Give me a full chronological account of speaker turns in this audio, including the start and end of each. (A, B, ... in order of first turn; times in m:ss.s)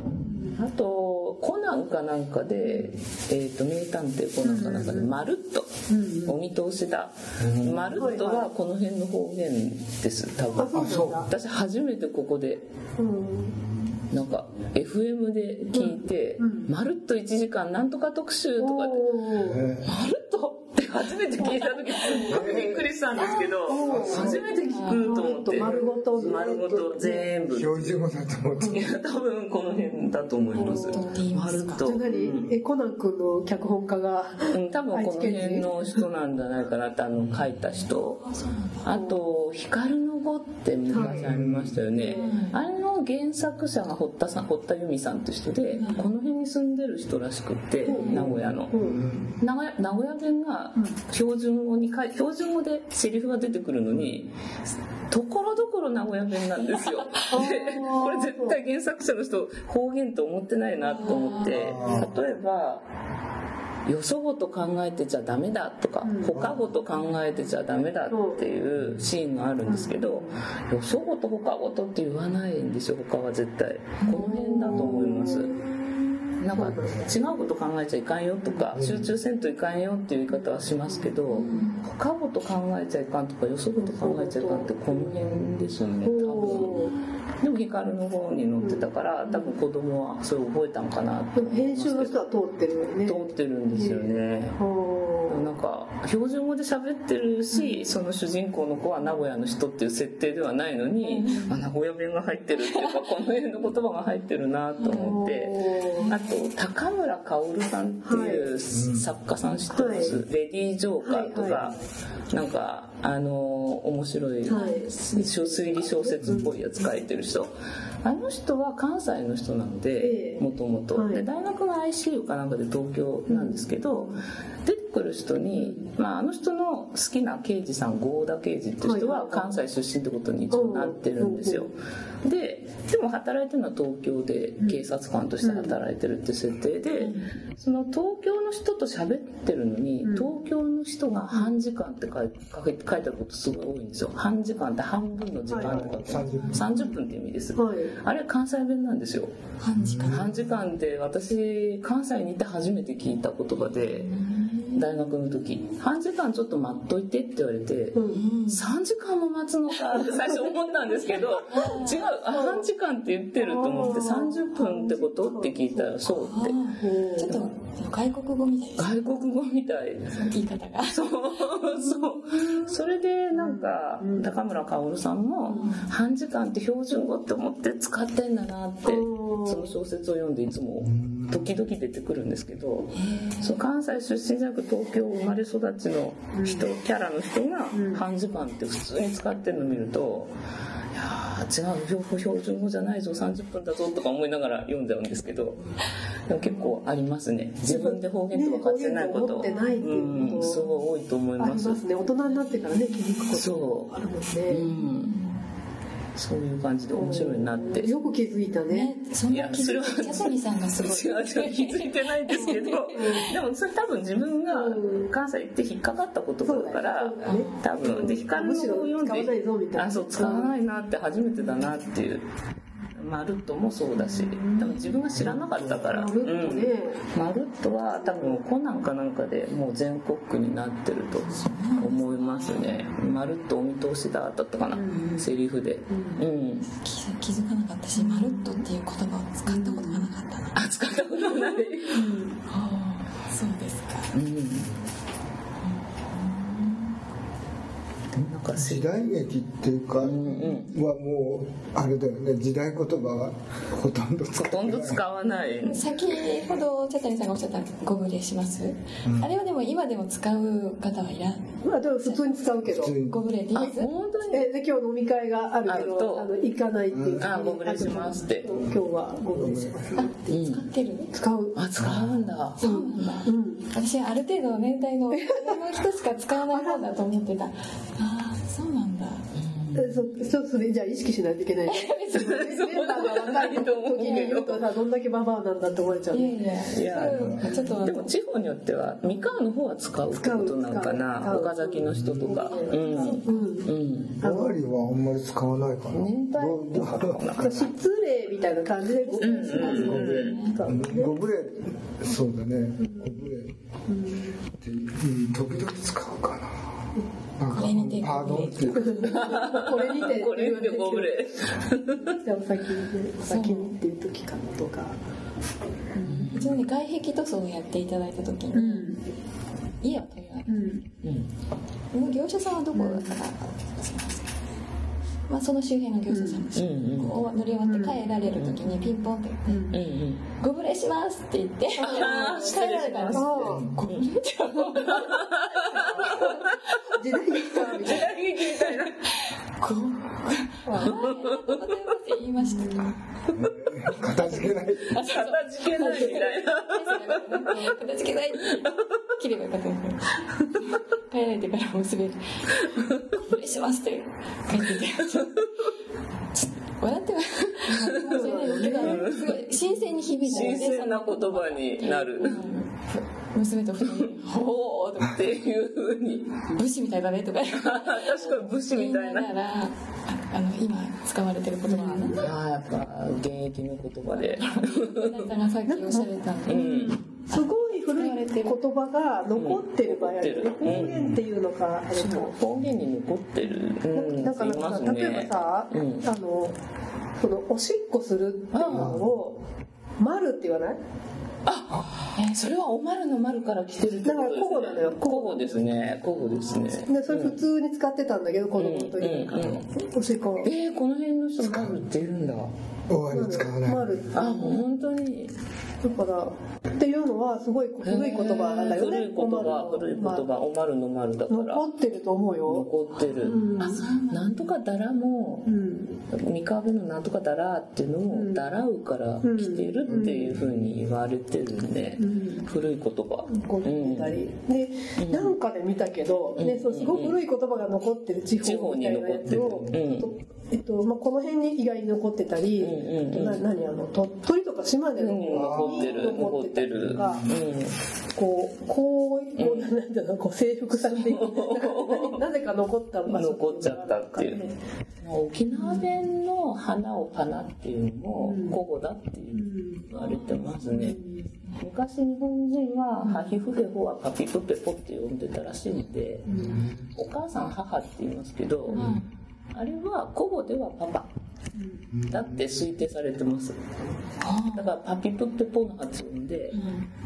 0:00.2-0:00.6 A
0:00.5-0:05.7 B
0:02.6-0:03.0 A
0:04.4-0:05.1 A
0:05.9-0:06.4 A
0:06.2-0:12.6 B
0:07.4-0:07.9 C
0:08.0-0:08.5 A
0:10.5-0:11.3 A
0:10.7-0:11.2 C
0:13.0-0:13.6 A
0:13.6-0:14.0 C
0:14.1-0:19.1 B
0:15.7-0:16.7 A
0:18.6-0:19.6 A
0:19.4-0:19.9 C
0:19.8-0:28.1 B
0:21.4-0:22.4 D
0:22.1-0:22.6 A
0:22.3-0:22.9 C
0:23.1-0:23.5 D
0:23.2-0:27.3 A
0:23.8-0:24.5 C
0:24.7-0:25.1 D
0:25.6-0:26.4 C
0:27.5-0:28.9 C
0:28.7-0:32.5 B
0:30.5-0:31.1 A
0:30.5-0:31.9 D
0:31.8-0:36.0 A
0:34.5-0:38.2 B
0:37.2-0:37.5 C
0:38.0-0:38.9 D
0:38.8-0:48.8 B
0:38.9-0:39.2 A
0:40.9-0:41.3 A
0:40.9-0:41.8 C
0:41.9-0:42.4 A
0:42.1-0:42.6 D
0:45.7-0:46.1 D
0:47.8-0:49.0 A
0:47.8-0:48.2 D
0:48.1-0:49.4 C
0:49.4-0:54.3 B
0:55.1-1:02.9 B
0:57.3-0:58.6 A
1:00.8-1:01.6 D
1:01.5-1:02.1 C
1:01.6-1:02.1 A
1:03.8-1:15.6 B
1:06.0-1:06.4 A
1:06.3-1:06.6 C
1:08.1-1:08.4 A
1:08.8-1:09.1 C
1:09.6-1:10.4 A
1:14.0-1:14.4 D
1:14.1-1:17.2 A
1:14.7-1:15.0 C
1:16.4-1:26.8 B
1:16.5-1:17.2 C
1:18.4-1:18.7 A
1:18.8-1:19.1 C
1:20.3-1:21.7 A
1:21.3-1:21.8 D
1:23.8-1:25.3 A
1:26.0-1:26.9 A
1:27.4-1:32.2 B
1:28.6-1:29.6 A
1:31.3-1:35.5 A
1:33.0-1:34.6 B
1:35.3-1:51.8 B
1:37.5-1:37.8 A
1:41.0-1:41.5 D
1:41.3-1:41.5 A
1:42.6-1:43.0 D
1:44.8-1:45.2 D
1:44.9-1:46.1 A
1:46.0-1:46.3 D
1:48.0-1:48.5 A
1:48.7-1:49.1 C
1:49.7-1:50.2 A
1:51.0-1:51.8 A
1:52.3-2:29.3 B
1:54.5-1:56.6 A
1:54.5-1:54.9 D
1:56.2-1:56.5 C
2:00.0-2:01.2 A
2:03.3-2:04.2 A
2:05.5-2:05.9 A
2:08.8-2:09.6 A
2:10.5-2:11.7 A
2:15.4-2:15.8 A
2:17.0-2:17.3 D
2:20.0-2:20.3 A
2:21.3-2:21.6 A
2:25.5-2:25.9 A
2:25.6-2:26.7 C
2:26.1-2:26.9 D
2:27.6-2:27.9 A
2:29.6-2:30.2 D
2:29.8-2:30.4 C
2:30.0-2:34.2 B
2:33.6-2:34.9 D
2:34.7-2:46.6 B
2:37.9-2:38.2 A
2:38.1-2:38.7 D
2:41.5-2:42.1 D
2:42.2-2:42.7 A
2:43.4-2:46.0 A
2:43.8-2:44.1 D
2:46.1-2:49.0 D
2:46.8-2:47.3 A
2:47.2-2:47.5 B
2:48.8-2:50.2 B
2:50.1-2:51.1 D
2:50.9-3:10.3 B
2:51.9-2:52.8 A
2:53.3-2:54.3 A
2:55.4-2:55.9 D
2:55.5-2:55.7 A
2:58.8-2:59.8 A
3:00.8-3:01.5 C
3:02.9-3:03.6 D
3:06.3-3:06.7 A
3:07.7-3:08.0 A
3:10.9-3:15.7 B
3:16.3-3:21.8 B
3:17.7-3:20.6 A
3:19.3-3:20.9 D
3:21.4-3:24.7 A
3:22.3-3:23.3 D
3:23.3-3:23.9 B
3:24.5-3:25.1 B
3:24.7-3:25.5 D
3:26.2-3:28.0 B
3:26.9-3:28.9 A
3:28.7-3:33.4 D
3:29.3-3:42.2 B
3:32.3-3:33.3 A
3:34.5-3:35.1 A
3:36.4-3:40.6 A
3:37.2-3:37.6 D
3:42.9-3:56.7 B
3:44.1-3:47.0 A
3:44.6-3:45.1 D
3:47.9-3:48.4 A
3:51.2-3:53.0 D
3:54.7-3:55.3 A
3:55.9-3:56.2 A
3:56.6-4:00.6 D
3:58.0-3:58.7 A
3:59.5-4:00.1 A
4:00.6-4:02.1 B
4:01.9-4:02.4 A
4:02.4-4:04.1 D
4:04.1-4:04.7 B
4:05.6-4:07.0 D
4:08.2-4:09.2 B
4:08.5-4:15.0 C
4:10.0-4:10.7 B
4:10.4-4:10.7 D
4:14.3-4:16.0 B
4:15.6-4:21.5 D
4:19.0-4:19.4 C
4:21.6-4:23.0 A
4:22.0-4:22.4 D
4:22.6-4:23.2 C
4:23.0-4:23.9 D
4:23.5-4:24.4 B
4:24.3-4:30.5 A
4:25.6-4:26.3 B
4:26.9-4:27.3 C
4:27.2-4:28.5 B
4:28.5-4:30.1 C
4:30.0-4:31.1 D
4:30.3-4:30.7 B
4:31.1-4:31.6 A
4:31.6-4:32.7 B
4:31.8-4:32.3 C
4:32.6-4:33.7 A
4:32.6-4:39.2 D
4:35.1-4:35.8 A
4:36.5-4:37.2 A
4:39.3-4:40.1 B
4:39.8-4:46.6 A
4:41.7-4:42.6 D
4:42.1-4:44.7 B
4:44.0-4:44.3 D
4:46.1-4:48.1 D
4:46.7-4:54.2 B
4:47.0-4:47.5 C
4:49.0-4:49.4 A
4:50.1-4:54.6 A
4:51.9-4:52.3 C
4:52.3-4:53.6 D
4:54.2-4:57.5 C
4:55.9-4:57.7 B
4:57.4-5:01.2 A
4:59.0-5:00.6 D
4:59.2-5:00.4 B
4:59.8-5:03.5 C
5:02.8-5:03.3 A
5:03.9-5:04.4 A
5:04.6-5:06.8 C
5:07.4-5:09.2 C
5:07.5-5:09.2 D
5:08.7-5:11.2 A
5:09.1-5:12.1 B
5:12.0-5:15.0 A
5:13.2-5:13.7 D
5:15.9-5:16.4 A
5:16.0-5:16.6 B
5:16.3-5:19.0 D
5:18.5-5:19.0 A
5:19.8-5:20.8 D
5:20.5-5:20.8 A
5:21.0-5:21.3 B
5:21.9-5:24.4 D
5:22.7-5:23.2 A
5:25.3-5:29.8 D
5:26.1-5:26.5 A
5:26.6-5:27.2 B
5:27.6-5:28.0 A
5:28.3-5:28.7 B
5:29.5-5:29.8 A
5:29.7-5:30.2 B
5:30.4-5:36.8 D
5:31.8-5:33.7 A
5:31.8-5:34.1 B
5:33.4-5:33.8 C
5:34.8-5:36.8 B
5:36.9-5:38.1 A
5:37.4-5:39.1 B
5:39.1-5:42.9 D
5:40.6-5:41.0 A
5:40.9-5:41.7 B
5:42.4-5:43.0 A
5:43.4-5:45.0 C
5:44.2-5:55.4 D
5:44.9-5:47.7 B
5:47.4-5:47.8 A
5:48.5-5:48.8 B
5:56.3-6:05.3 D
5:57.7-5:59.4 B
5:57.9-5:59.3 A
6:00.2-6:02.6 B
6:00.3-6:00.8 A
6:04.1-6:06.5 B
6:06.5-6:12.3 D
6:07.5-6:09.4 B
6:11.6-6:12.3 A
6:12.1-6:15.3 B
6:14.2-6:18.6 D
6:15.7-6:22.4 A
6:16.4-6:17.1 B
6:19.3-6:21.2 B
6:20.6-6:21.1 C
6:21.9-6:26.1 B
6:23.9-6:26.6 A
6:27.2-6:29.4 A
6:28.5-6:29.0 B
6:28.7-6:29.0 C
6:30.0-6:30.8 A
6:31.4-6:37.4 B
6:34.0-6:35.9 A
6:36.7-6:40.5 A
6:38.6-6:39.6 B
6:40.4-6:42.5 B
6:41.4-6:41.7 A
6:41.5-6:41.8 C
6:42.9-6:44.0 C
6:43.1-6:44.7 A
6:44.1-6:45.3 B
6:45.8-6:50.3 A
6:47.8-6:51.6 B
6:51.3-6:53.8 A
6:52.4-6:55.5 B
6:53.2-6:54.5 D
6:55.4-6:56.0 A
6:56.1-7:04.2 B
6:58.1-6:58.6 A
6:59.2-7:00.4 A
7:00.0-7:00.9 C
7:02.0-7:02.5 A
7:03.2-7:17.2 A
7:05.0-7:05.3 B
7:06.4-7:07.2 B
7:08.4-7:10.1 B
7:09.3-7:09.7 C
7:12.6-7:13.4 B
7:15.0-7:17.8 B
7:15.3-7:16.2 C
7:16.8-7:17.4 C
7:18.1-7:24.6 A
7:19.4-7:19.7 B
7:20.7-7:22.2 B
7:23.1-7:24.4 B
7:25.0-7:31.0 B
7:25.5-7:26.0 A
7:28.2-7:28.6 A
7:29.3-7:31.3 A
7:30.6-7:30.9 D
7:31.6-7:36.3 B
7:33.0-7:33.4 A
7:36.3-7:36.6 A
7:36.4-7:36.8 C
7:36.9-7:38.8 B
7:38.7-7:39.1 D
7:38.7-7:39.0 C
7:39.5-7:41.1 B
7:41.6-7:41.9 A
7:41.9-7:42.6 C
7:42.1-7:43.6 B
7:44.2-7:44.7 D
7:44.5-7:46.6 B
7:46.5-7:46.9 D